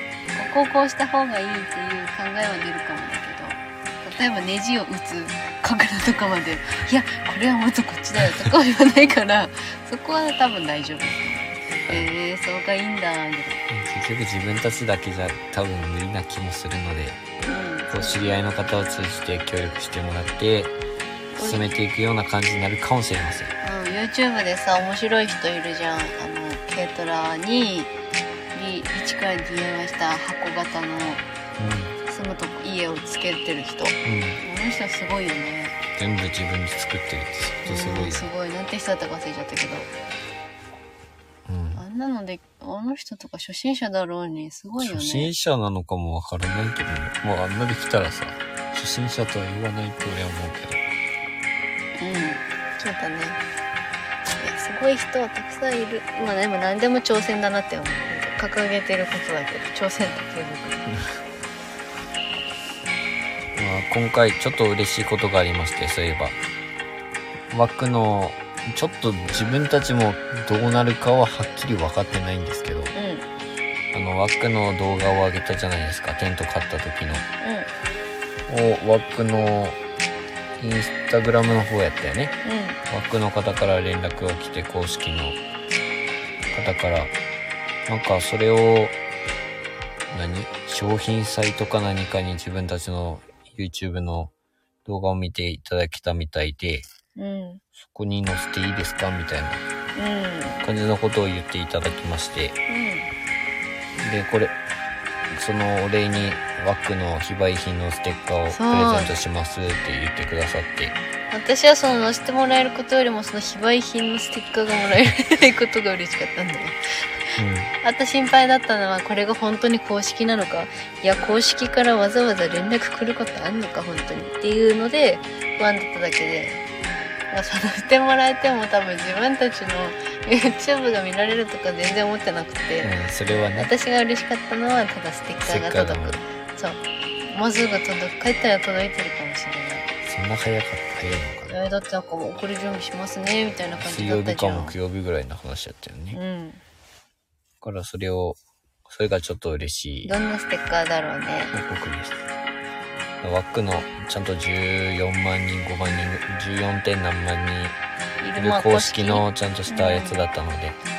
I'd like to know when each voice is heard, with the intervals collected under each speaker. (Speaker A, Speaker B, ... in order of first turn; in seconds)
Speaker A: 0.3-13.6, 17.5-18.3, 21.3-21.8, 23.6-27.9, 28.5-31.3, 32.0-35.8, 37.7-39.9, 41.8-45.3, 52.0-53.4, 54.4-60.9, 72.9-73.3, 77.4-77.7, 82.4-82.8, 97.2-97.6, 100.0-100.6, 102.7-103.1, 108.5-109.1, 111.3-116.8, 117.3-126.7, 127.3-132.9, 133.6-139.9, 141.5-144.7, 146.1-146.6, 150.1-151.6, 158.2-160.2
Speaker B: 13.7-17.2, 17.9-20.8, 21.4-23.5, 31.6-32.0, 34.0-34.4, 36.0-38.3, 41.5-41.8, 44.8-50.8, 63.6-66.4, 67.5-72.9, 73.9-77.3, 78.5-79.8, 80.6-82.4, 82.9-85.4, 86.5-87.1, 87.9-89.0, 90.1-94.3, 94.8-96.9, 97.8-99.6, 100.6-102.6, 104.0-104.5, 105.3-111.0, 117.4-117.7, 132.8-133.7, 135.4-136.2, 140.1-141.7, 143.8-146.2, 147.6-150.2, 151.5-152.2, 153.2-157.8, 158.4-160.8